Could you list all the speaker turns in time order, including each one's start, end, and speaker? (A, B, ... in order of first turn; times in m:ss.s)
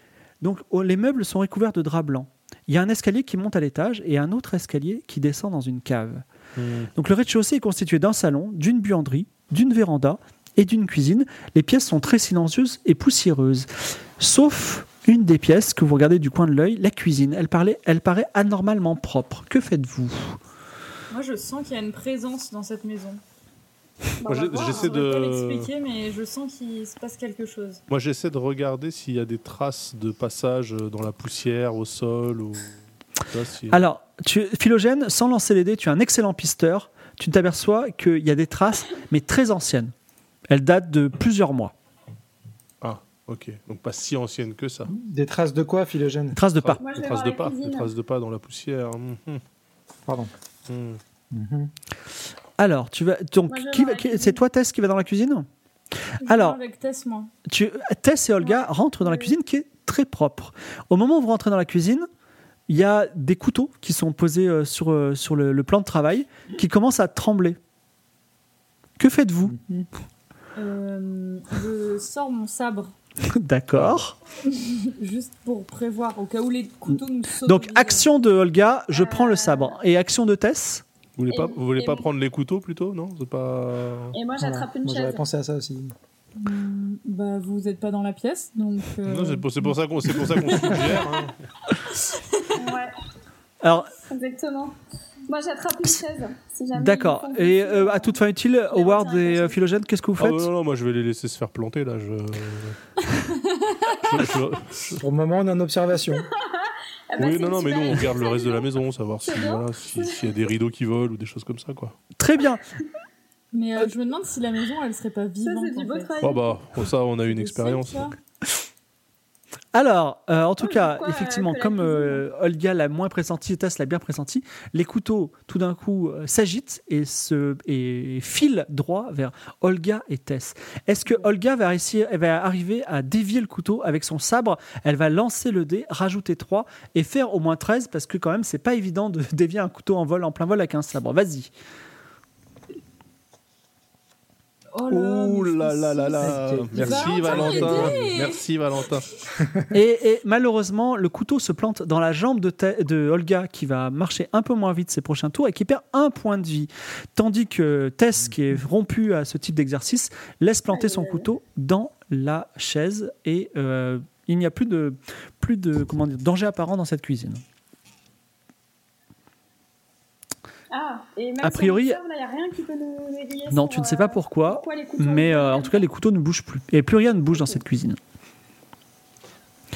0:00.4-0:06.2 A
0:06.6-0:06.9 B
0:06.9-0:20.4 A
0:21.1-0:23.2 C
0:24.2-0:24.9 D
0:24.2-0:25.7 B
0:24.5-0:27.8 C
0:27.9-0:33.8 B
0:33.7-0:39.9 A
0:40.5-0:41.7 A
0:42.8-0:44.9 B
0:44.9-0:46.4 E
0:46.3-0:46.8 A
0:46.6-0:49.4 B
0:46.8-0:47.9 D
0:50.7-0:51.0 B
0:51.3-0:51.7 E
0:52.6-0:55.5 A
0:53.5-0:54.4 D
0:56.2-0:57.3 C
0:56.2-0:56.6 A
0:57.4-1:02.1 A
0:58.4-0:59.3 D
1:02.7-1:07.6 A
1:09.0-1:09.8 A
1:10.6-1:12.9 C
1:13.2-1:14.2 A
1:13.7-1:14.0 B
1:14.4-1:18.1 C
1:17.4-1:20.8 A
1:18.9-1:19.7 D
1:21.2-1:24.1 B
1:21.3-1:22.1 D
1:24.1-1:25.2 D
1:24.4-1:25.9 E
1:26.4-1:31.0 C
1:29.1-1:31.3 B
1:32.0-1:32.5 C
1:32.6-1:32.9 D
1:33.6-1:33.9 A
1:34.0-1:34.8 D
1:35.3-1:38.2 D
1:36.7-1:40.5 A
1:38.7-1:39.6 D
1:40.2-1:42.8 B
1:43.1-1:44.2 C
1:44.0-1:45.0 B
1:45.0-1:46.3 E
1:46.1-1:48.6 D
1:47.2-1:52.0 B
1:49.2-1:50.3 D
1:52.2-1:52.6 A
1:53.5-1:56.1 C
1:55.4-1:56.6 D
1:56.2-1:58.0 B
1:57.3-1:58.1 C
1:59.7-2:21.5 A
2:00.6-2:02.2 D
2:24.7-2:28.4 C
2:24.9-2:29.1 B
2:26.2-2:28.0 E
2:29.7-2:47.4 A
2:40.7-2:41.2 D
2:50.7-2:55.9 D
2:51.4-2:52.0 A
2:53.5-2:58.0 A